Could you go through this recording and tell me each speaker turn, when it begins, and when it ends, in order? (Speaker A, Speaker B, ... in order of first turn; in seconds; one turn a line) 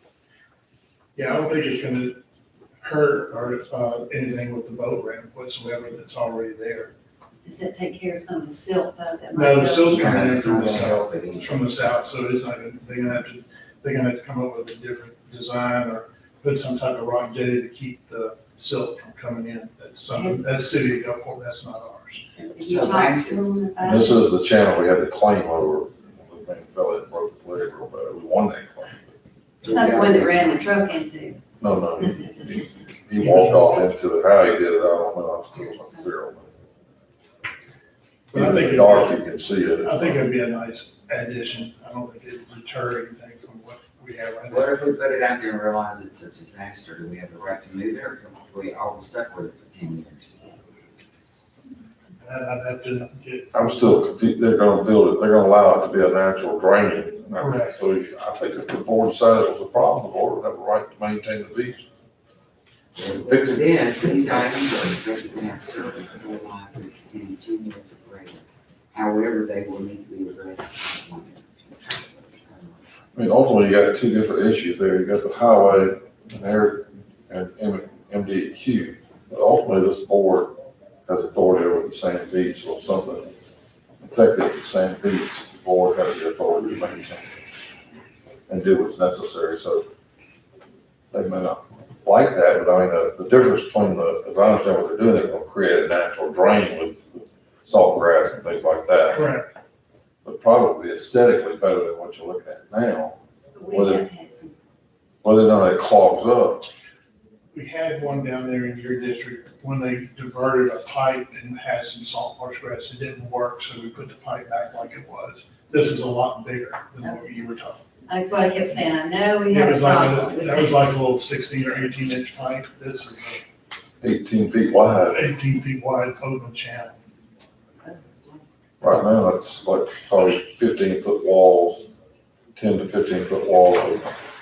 Speaker A: 1.1-2.2
Speaker A: 2.8-6.9
Speaker B: 7.4-10.2
Speaker A: 9.3-22.3
Speaker C: 9.9-11.6
Speaker B: 22.4-24.3
Speaker C: 22.6-23.4
Speaker D: 23.8-29.1
Speaker C: 29.6-30.7
Speaker B: 29.6-32.7
Speaker D: 31.6-36.5
Speaker A: 33.2-33.9
Speaker A: 38.3-39.2
Speaker D: 38.3-40.2
Speaker A: 39.8-44.7
Speaker C: 44.5-50.6
Speaker A: 52.2-53.6
Speaker D: 53.5-61.9
Speaker A: 57.4-57.8
Speaker C: 63.0-72.8
Speaker D: 63.3-63.7
Speaker D: 73.1-80.5
Speaker D: 81.1-83.3
Speaker D: 84.0-87.3
Speaker D: 88.5-89.8
Speaker D: 91.1-99.3
Speaker A: 99.1-99.5
Speaker D: 100.2-103.2
Speaker B: 103.5-104.5
Speaker D: 103.7-104.0
Speaker D: 105.2-106.7
Speaker A: 107.5-117.8
Speaker B: 117.0-117.4
Speaker B: 118.1-120.8
Speaker A: 119.5-123.4
Speaker D: 124.0-125.2
Speaker A: 125.1-127.0
Speaker B: 127.8-128.4
Speaker D: 128.8-131.8
Speaker D: 132.6-134.2